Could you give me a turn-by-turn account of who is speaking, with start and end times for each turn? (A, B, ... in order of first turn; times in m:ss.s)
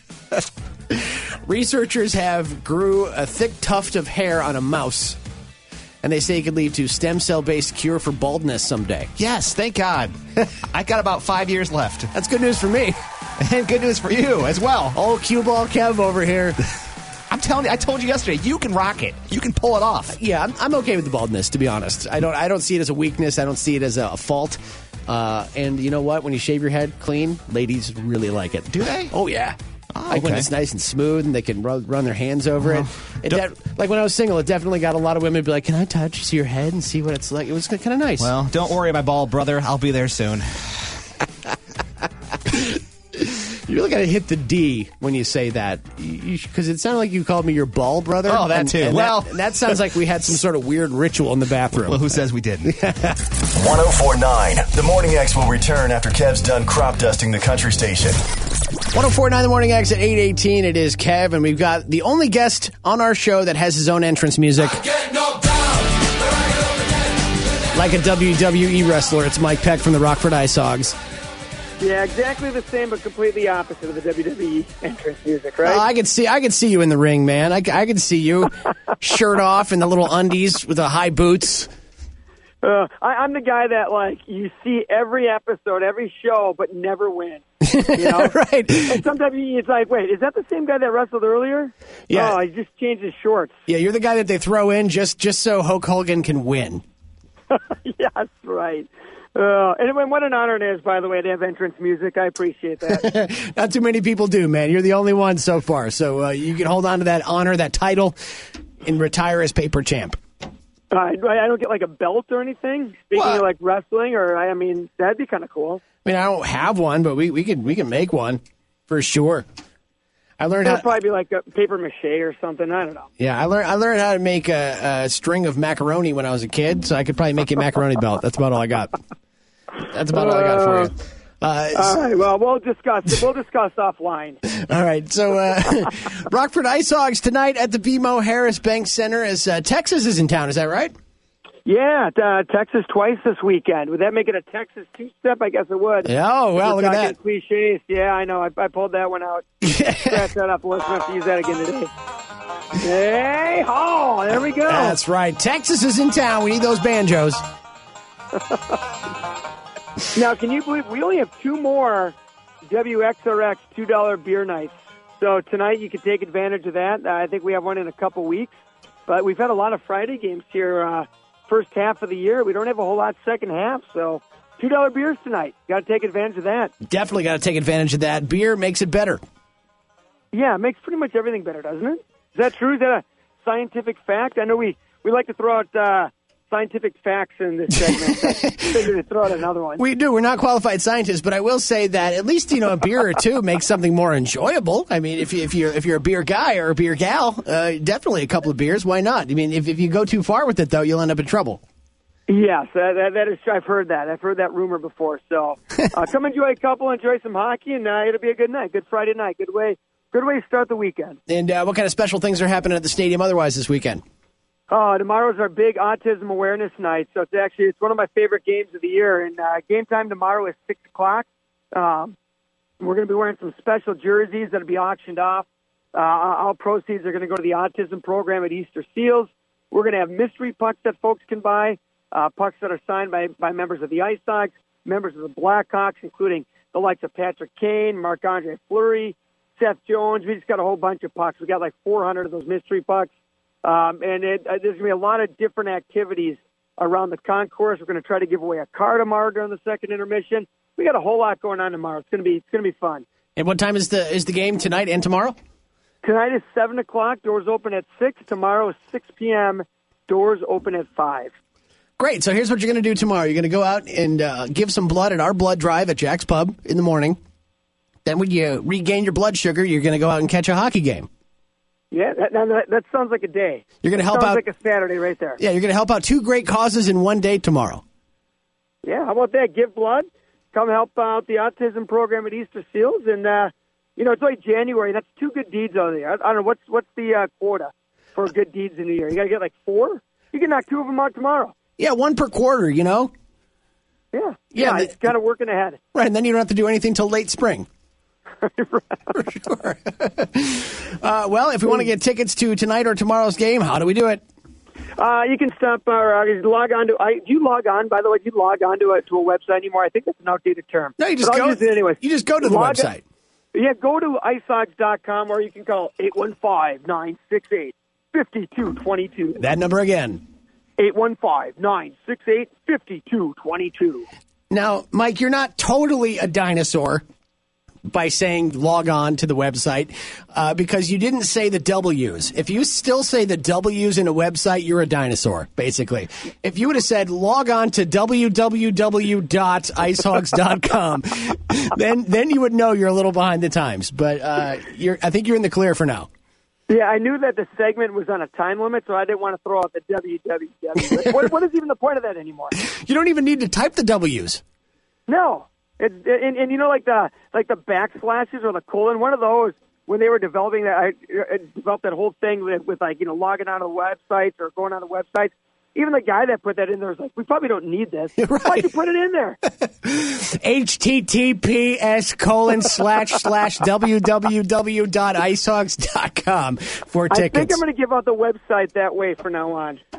0:00.9-0:05.2 A
0:06.0-0:09.1 A
0:09.2-0:12.1 B
0:12.1-0:13.0 A
0:13.4-0:15.0 B
0:14.9-0:16.6 A
0:17.3-0:20.2 B
0:20.1-0:29.6 A
0:28.7-0:29.1 B
0:29.9-0:30.5 B
0:30.1-0:38.3 A
0:32.6-0:33.4 B
0:38.2-0:41.0 B
0:42.5-0:53.2 A
0:48.2-0:49.8 B
0:51.8-0:52.7 B
0:53.5-0:58.2 C
0:58.9-1:04.8 A
1:07.7-1:11.0 A
1:11.8-1:15.8 D
1:15.6-1:21.7 A
1:22.6-1:33.5 D
1:27.6-1:29.0 A
1:32.1-1:32.4 A
1:33.7-1:36.8 A
1:37.5-1:43.0 D
1:42.9-1:48.2 A
1:48.8-1:50.2 A
1:50.9-1:55.8 D
1:53.1-1:53.4 B
1:56.0-1:59.4 A
2:00.4-2:00.9 A
2:00.6-2:03.1 D
2:03.2-2:09.0 A
2:09.9-2:12.0 A
2:10.1-2:10.9 D
2:11.7-2:14.4 D
2:14.5-2:20.9 A
2:21.6-2:29.4 D
2:26.0-2:27.1 A
2:29.6-2:30.3 A
2:30.0-2:31.9 D
2:32.8-2:35.0 D
2:34.7-2:37.4 A
2:38.3-2:38.6 D
2:40.1-2:42.1 D
2:42.7-2:48.5 D
2:49.1-2:56.7 D
2:56.8-2:59.2 A
3:00.3-3:09.8 D
3:07.8-3:08.8 A
3:09.8-3:21.6 A
3:22.3-3:31.2 D
3:31.3-3:34.0 A
3:34.7-3:42.1 D
3:42.8-4:03.1 D
4:03.6-4:13.0 D
4:13.4-4:15.4 A
4:16.0-4:21.3 D
4:22.0-4:27.2 A
4:28.0-4:31.1 A
4:31.9-4:35.4 D
4:33.8-4:34.4 A
4:35.4-4:37.8 A
4:38.8-4:51.5 D
4:51.8-4:53.1 A
4:54.1-4:55.8 D
4:54.6-4:55.0 A
4:55.9-4:57.7 A
4:58.4-4:59.1 D
4:59.1-5:04.2 A
5:05.0-5:12.9 D
5:11.0-5:13.0 A
5:13.5-5:19.4 D
5:19.4-5:20.2 A
5:20.8-5:24.1 D
5:24.5-5:27.0 A
5:27.8-5:46.1 A
5:46.7-5:52.5 D
5:52.6-5:54.4 A
5:55.1-6:09.4 D
6:08.2-6:08.7 A
6:09.8-6:17.6 A
6:17.1-6:19.8 D